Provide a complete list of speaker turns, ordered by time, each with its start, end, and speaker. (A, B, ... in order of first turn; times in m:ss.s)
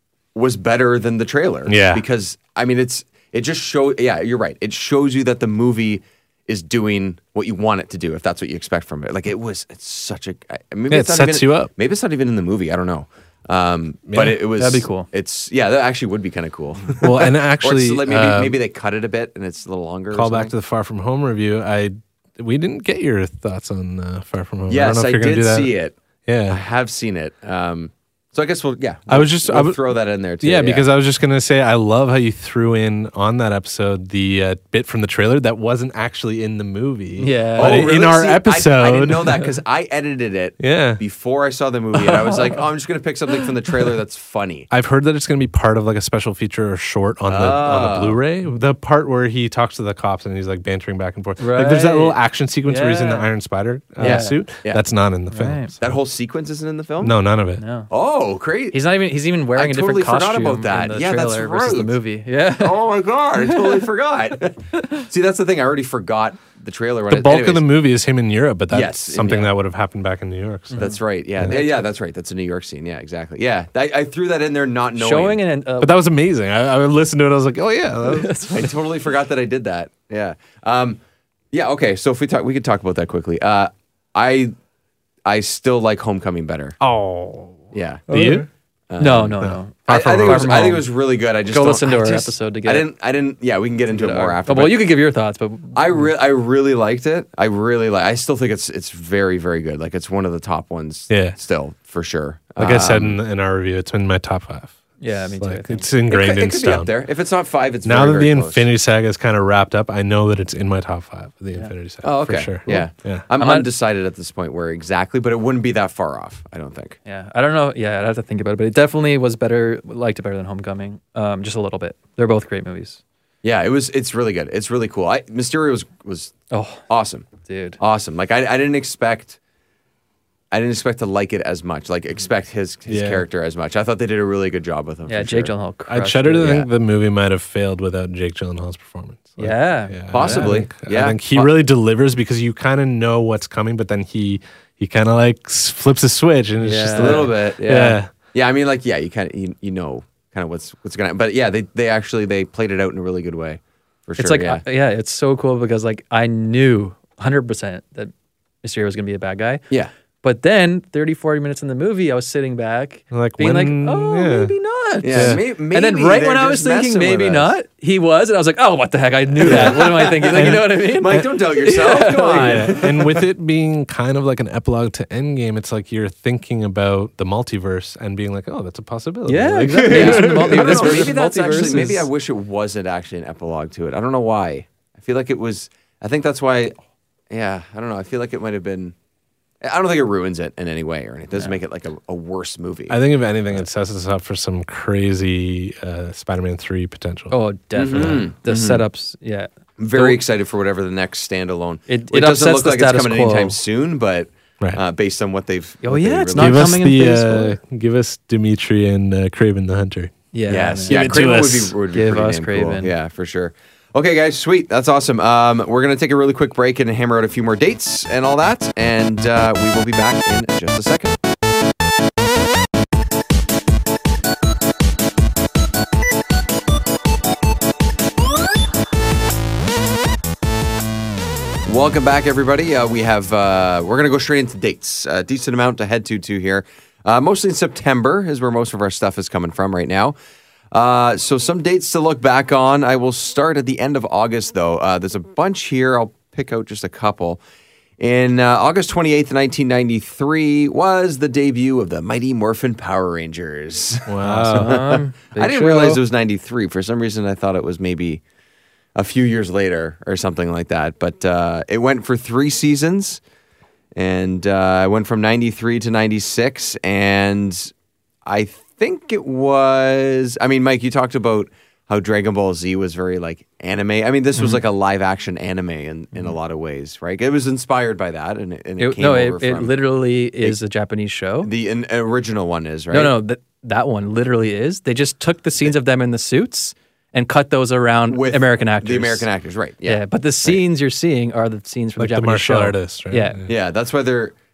0:00.3-0:20.5 A
0:01.7-0:02.0 B
0:10.9-0:11.7 B
0:14.1-0:14.4 B
0:14.6-0:15.1 C
0:17.0-0:18.6 B
0:20.1-0:25.7 B
0:24.7-0:25.9 A
0:26.2-0:26.6 B
0:26.5-0:30.8 A
0:29.1-0:29.8 B
0:30.4-0:39.4 B
0:37.2-0:37.9 C
0:37.6-0:44.7 A
0:40.6-0:41.0 B
0:44.7-0:56.0 B
0:47.3-0:48.2 A
0:51.4-0:53.3 C
0:54.0-0:54.4 C
0:54.0-0:54.8 A
0:55.3-0:55.7 C
0:55.8-0:57.2 A
0:57.0-0:57.6 B
0:57.6-0:57.9 C
0:57.9-0:58.8 A
0:58.7-1:02.8 C
0:59.5-1:02.0 A
1:02.6-1:07.7 A
1:03.4-1:03.8 C
1:04.8-1:05.0 C
1:07.1-1:10.8 B
1:08.7-1:09.5 A
1:10.7-1:11.0 C
1:10.8-1:15.4 A
1:15.0-1:15.9 C
1:15.8-1:18.3 B
1:18.0-1:18.7 C
1:18.5-1:21.0 A
1:21.5-1:24.5 A
1:25.2-1:26.8 A
1:26.8-1:28.5 B
1:27.7-1:28.1 A
1:28.1-1:28.4 C
1:28.9-1:34.9 A
1:29.0-1:30.8 C
1:29.4-1:30.7 B
1:31.5-1:32.8 C
1:33.9-1:36.1 C
1:35.7-1:43.2 A
1:41.1-1:41.4 B
1:42.6-1:46.9 B
1:45.0-1:45.9 C
1:46.1-1:48.7 A
1:47.8-1:53.2 B
1:52.0-1:57.0 A
1:53.4-1:53.7 C
1:57.0-2:03.0 C
2:03.4-2:06.4 A
2:06.5-2:06.8 C
2:06.9-2:07.3 A
2:07.4-2:07.8 C
2:07.8-2:09.4 A
2:10.5-2:15.5 A
2:12.9-2:13.2 B
2:15.1-2:16.6 C
2:15.9-2:28.1 B
2:19.4-2:20.5 C
2:20.1-2:21.5 A
2:26.6-2:27.3 C
2:26.9-2:34.6 A
2:34.2-2:38.1 C
2:38.6-2:39.6 C
2:40.2-2:52.8 C
2:43.1-2:44.5 B
2:45.0-2:47.5 A
2:45.1-2:45.4 B
2:49.4-2:53.2 A
2:49.4-2:51.3 B
2:52.3-3:01.1 B
2:59.3-3:02.0 C
2:59.8-3:06.8 A
3:07.3-3:08.9 A
3:09.6-3:13.0 A
3:12.9-3:17.4 B
3:17.3-3:20.2 C
3:17.7-3:18.8 A
3:17.9-3:18.3 B
3:19.8-3:26.8 A
3:21.9-3:23.6 C
3:25.8-3:27.6 C
3:26.4-3:30.1 B
3:30.3-3:31.1 C
3:30.5-3:41.1 A
3:30.9-3:31.7 B
3:31.9-3:32.9 C
3:51.6-4:00.1 A
4:00.7-4:07.4 A
4:08.0-4:18.2 A
4:14.1-4:14.8 B
4:14.4-4:15.9 C
4:15.4-4:15.9 B
4:18.9-4:23.2 A
4:23.9-4:27.7 A
4:28.2-4:39.8 A
4:34.4-4:34.6 C
4:38.8-4:41.5 C
4:41.4-4:43.2 A
4:42.9-4:49.2 C
4:48.1-4:50.6 A
4:49.8-4:53.4 C
4:52.0-4:53.5 B
4:53.5-4:54.3 A